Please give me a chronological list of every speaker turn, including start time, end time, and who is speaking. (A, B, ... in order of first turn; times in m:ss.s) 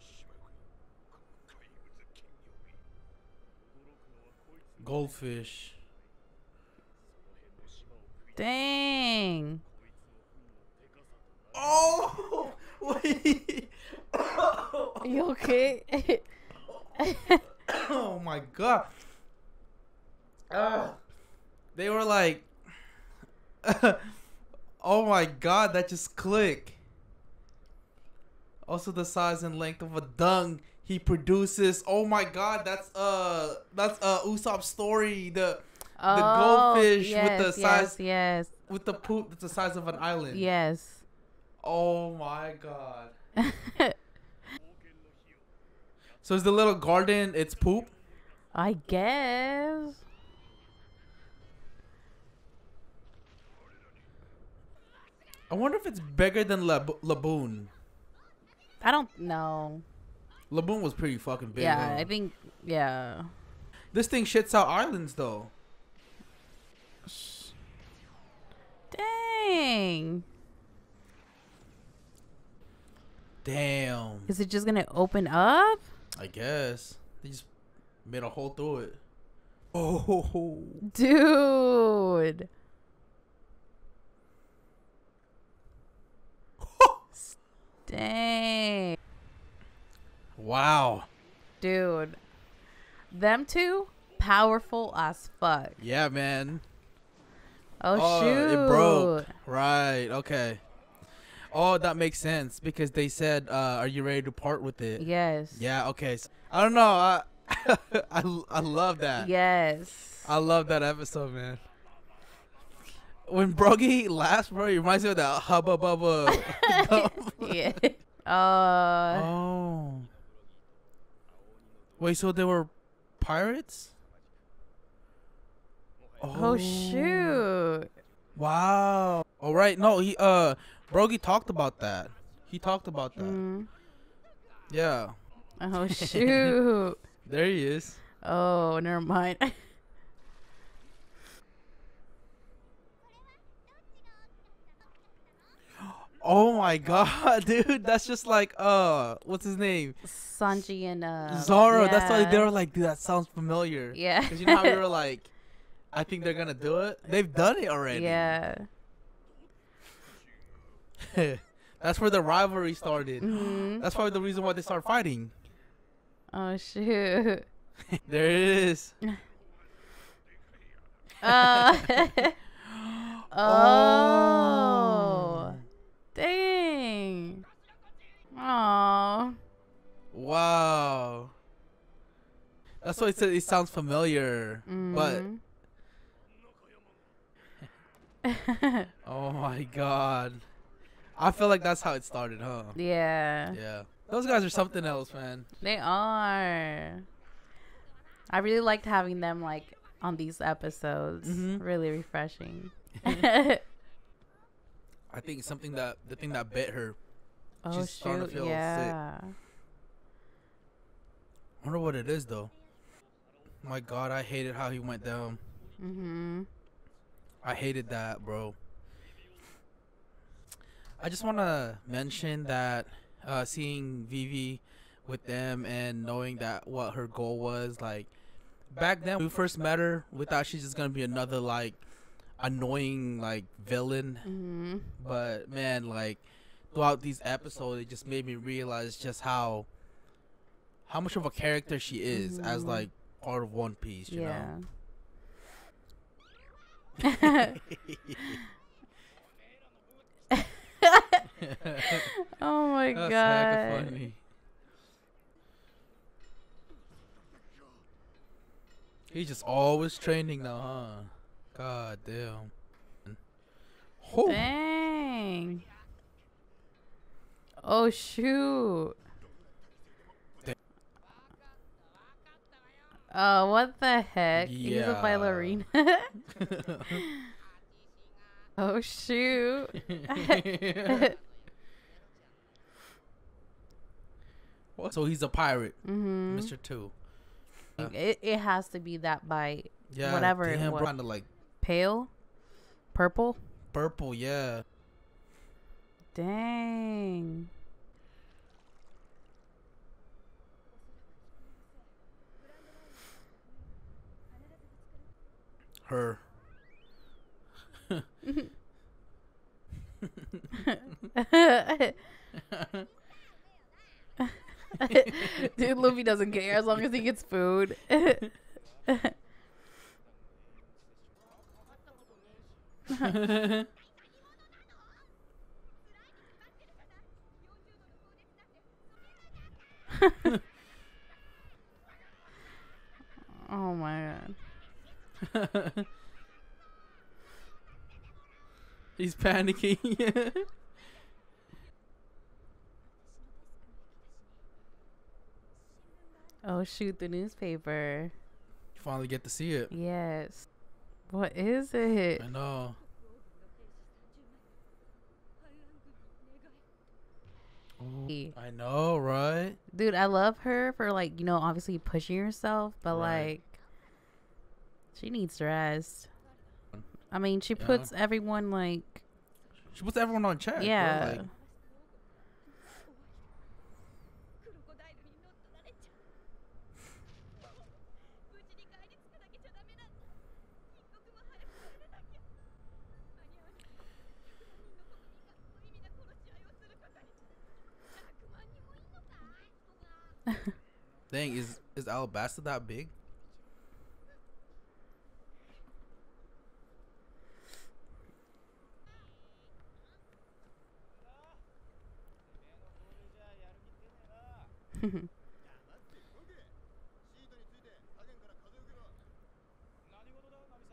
0:04.8-0:05.8 A
0:08.4-0:09.6 B
0:11.5-0:15.1 A
0:15.0-0:16.3 B
0:17.0-0:17.4 B
0:17.7-0:18.9 A
0:20.5-0:21.0 A
0:21.8-0:22.5 A
0:23.6-0:24.2 A
0:24.8-0:26.8 A
0:28.7-0:38.0 A
0:36.0-0:38.5 B
0:38.7-0:40.5 A
0:40.3-0:41.0 B
0:41.6-0:43.2 A
0:43.4-0:43.9 B
0:46.2-0:48.0 A
0:48.5-0:50.0 B
0:55.5-0:57.7 A
0:58.8-0:59.8 B
1:00.5-1:02.1 A
1:01.6-1:03.3 B
1:03.9-1:05.5 A
1:07.1-1:07.5 B
1:08.9-1:10.2 B
1:13.4-1:14.3 A
1:14.3-1:15.9 B
1:16.1-1:17.5 A
1:18.0-1:19.0 A
1:19.7-1:20.9 A
1:20.8-1:22.5 B
1:26.6-1:27.0 A
1:27.9-1:29.0 B
1:30.4-1:31.1 A
1:31.6-1:32.2 B
1:33.1-1:35.8 B
1:35.8-1:36.6 A
1:37.8-1:39.3 B
1:37.9-1:40.6 A
1:41.5-1:49.3 A
1:45.0-1:45.6 B
1:49.2-1:50.3 B
1:50.2-1:51.6 A
1:53.2-1:57.6 A
1:56.3-1:59.3 B
1:59.1-2:00.1 A
2:02.0-2:03.9 A
2:06.2-2:07.4 A
2:06.3-2:07.9 B
2:08.4-2:13.4 A
2:13.2-2:13.7 B
2:14.7-2:15.2 A
2:15.6-2:17.0 B
2:15.8-2:16.6 A
2:17.2-2:18.0 A
2:18.2-2:19.7 B
2:25.8-2:30.0 A
2:30.0-2:32.5 B
2:31.3-2:35.3 A
2:33.9-2:34.8 B
2:35.9-2:38.4 A
2:37.9-2:38.7 B
2:41.0-2:45.3 A
2:43.2-2:43.9 B
2:46.3-2:47.5 B
2:47.9-2:49.0 A
2:51.2-2:52.4 B
2:51.2-2:51.8 A
2:52.6-2:55.6 A
2:53.3-2:55.6 B
2:56.2-2:57.5 B
2:58.3-2:59.4 B
3:00.1-3:01.3 A
3:02.8-3:05.3 A
3:04.7-3:05.4 B
3:08.2-3:08.9 B
3:09.0-3:10.4 A
3:11.2-3:12.8 A
3:12.8-3:13.6 B
3:13.5-3:15.5 A
3:15.6-3:17.1 B
3:18.3-3:23.6 B
3:21.2-3:21.6 A
3:25.1-3:27.0 A
3:27.6-3:29.4 B
3:27.7-3:29.0 A
3:31.6-3:32.5 A
3:33.6-3:35.4 A
3:35.8-3:36.5 B
3:37.4-3:38.6 A
3:41.0-3:48.1 A
3:48.7-3:51.8 A
3:52.4-3:54.3 A
3:54.2-3:55.0 B
3:55.0-3:59.7 A
4:00.9-4:04.5 A
4:02.1-4:02.9 B
4:04.1-4:04.7 B
4:07.0-4:07.6 B
4:07.1-4:08.4 A
4:10.3-4:11.3 B
4:11.4-4:12.1 A
4:11.8-4:14.1 B
4:12.9-4:14.2 A
4:19.1-4:22.5 A
4:24.0-4:24.5 A
4:24.2-4:25.7 B
4:27.6-4:29.0 B
4:33.1-4:36.1 B
4:34.4-4:35.6 A
4:36.3-4:37.0 A
4:36.9-4:37.3 B
4:38.6-4:41.2 B
4:39.8-4:41.1 A
4:44.8-4:46.9 A
4:45.8-4:46.5 B
4:47.8-4:50.9 B
4:49.9-4:51.3 A
4:51.6-4:52.1 B
4:52.9-4:53.4 B
4:53.7-4:54.6 A
4:56.1-4:57.5 B
5:05.8-5:06.2 A
5:10.0-5:10.5 A
5:10.5-5:12.0 B
5:12.3-5:12.9 A
5:14.2-5:18.2 B
5:14.8-5:15.3 A
5:18.9-5:19.1 B
5:23.0-5:23.7 A
5:33.4-5:34.4 B
5:35.2-5:35.8 A
5:39.0-5:40.5 A
5:46.4-5:48.1 B
5:48.8-5:49.7 A
5:49.7-5:50.5 B
5:51.1-5:52.3 B
5:52.2-5:52.8 A
5:57.8-5:59.6 A
5:59.7-6:03.5 B
6:02.9-6:03.3 A
6:05.0-6:06.1 B
6:07.1-6:09.0 B
6:07.6-6:07.9 A
6:09.7-6:11.3 A
6:10.6-6:11.4 B
6:31.1-6:32.9 A
6:44.8-6:45.1 B